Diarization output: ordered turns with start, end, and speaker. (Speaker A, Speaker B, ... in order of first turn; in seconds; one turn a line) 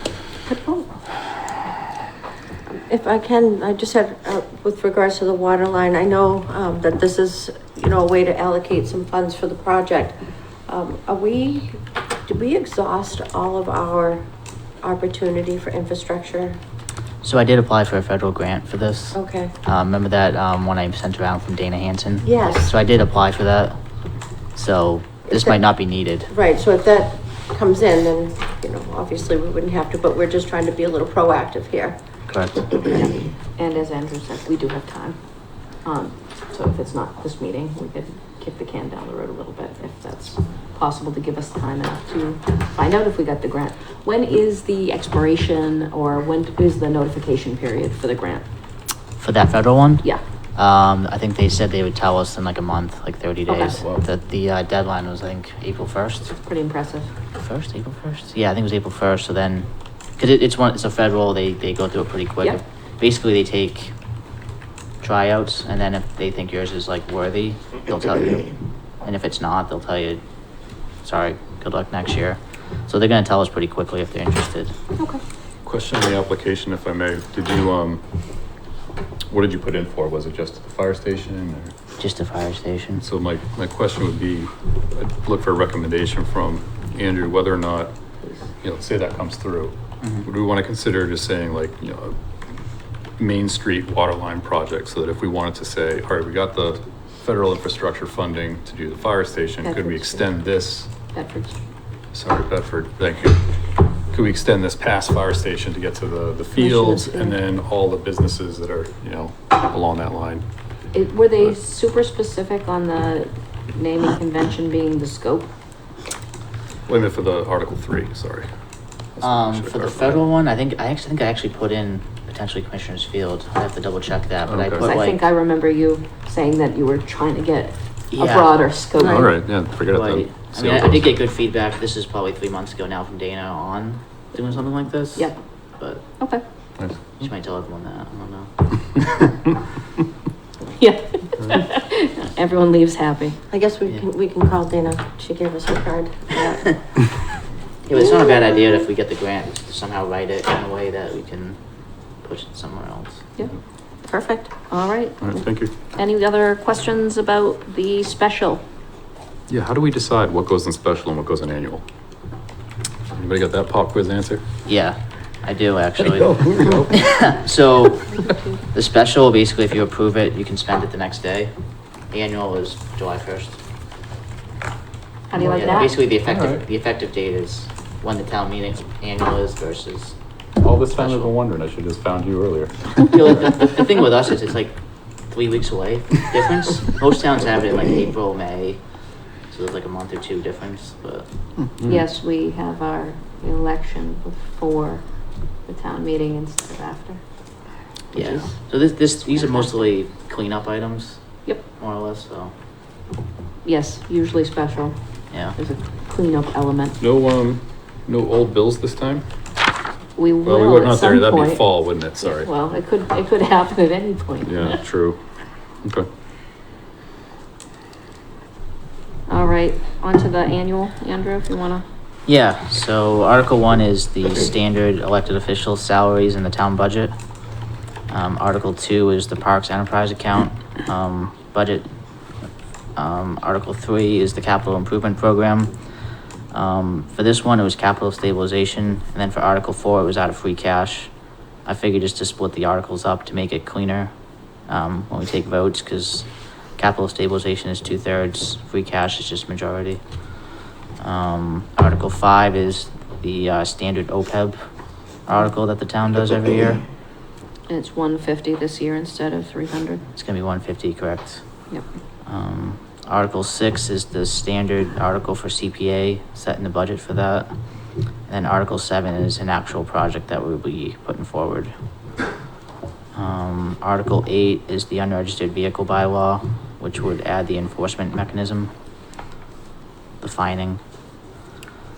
Speaker A: 0.5-0.8
Speaker B: 2.9-14.2
Speaker B: 14.8-16.6
Speaker C: 17.2-23.8
Speaker B: 19.1-19.5
Speaker B: 22.2-22.7
Speaker C: 24.6-26.3
Speaker B: 25.3-25.6
Speaker B: 26.3-32.0
Speaker C: 32.3-32.6
Speaker A: 32.9-35.2
Speaker A: 35.8-48.5
Speaker C: 49.2-56.4
Speaker A: 53.5-53.8
Speaker D: 53.8-54.0
Speaker A: 56.4-57.1
Speaker C: 57.4-64.0
Speaker C: 65.0-70.2
Speaker C: 71.0-74.7
Speaker D: 75.7-78.0
Speaker D: 79.3-81.8
Speaker C: 82.0-83.0
Speaker D: 83.0-87.9
Speaker D: 88.6-92.2
Speaker D: 93.2-100.9
Speaker A: 99.6-100.3
Speaker A: 101.1-101.6
Speaker D: 102.1-103.4
Speaker D: 104.1-110.5
Speaker A: 106.6-107.4
Speaker A: 110.9-115.5
Speaker D: 116.9-118.5
Speaker D: 119.2-120.2
Speaker C: 119.2-125.2
Speaker D: 124.5-124.8
Speaker A: 124.8-129.3
Speaker C: 128.1-128.6
Speaker D: 129.0-131.1
Speaker C: 129.7-136.0
Speaker D: 136.8-137.3
Speaker C: 137.2-139.3
Speaker A: 140.7-143.4
Speaker B: 143.5-146.4
Speaker A: 146.3-146.6
Speaker C: 147.9-151.6
Speaker C: 152.2-153.2
Speaker B: 154.1-154.5
Speaker A: 154.7-158.6
Speaker D: 155.2-155.7
Speaker D: 159.5-161.8
Speaker D: 163.1-164.4
Speaker C: 164.7-171.5
Speaker D: 166.0-167.3
Speaker A: 168.2-168.6
Speaker C: 172.1-173.6
Speaker A: 175.3-176.0
Speaker C: 175.4-180.2
Speaker D: 176.3-176.6
Speaker D: 180.6-183.2
Speaker C: 180.8-181.3
Speaker C: 183.1-188.8
Speaker C: 189.5-191.3
Speaker D: 191.7-192.0
Speaker A: 191.9-195.1
Speaker A: 195.7-197.2
Speaker A: 198.1-198.6
Speaker C: 198.1-202.5
Speaker A: 199.4-199.7
Speaker A: 203.6-207.0
Speaker C: 205.3-205.6
Speaker D: 207.0-209.3
Speaker A: 210.2-214.8
Speaker D: 210.4-212.5
Speaker D: 214.4-215.2
Speaker A: 219.3-221.8
Speaker C: 222.3-227.1
Speaker C: 228.1-231.9
Speaker C: 233.0-235.7
Speaker C: 236.5-241.1
Speaker C: 241.7-244.1
Speaker C: 244.7-250.0
Speaker C: 251.0-254.6
Speaker C: 255.2-256.8
Speaker A: 257.7-260.1
Speaker C: 260.1-261.8
Speaker C: 262.3-267.5
Speaker C: 268.3-271.7
Speaker C: 273.1-278.7
Speaker C: 280.2-280.8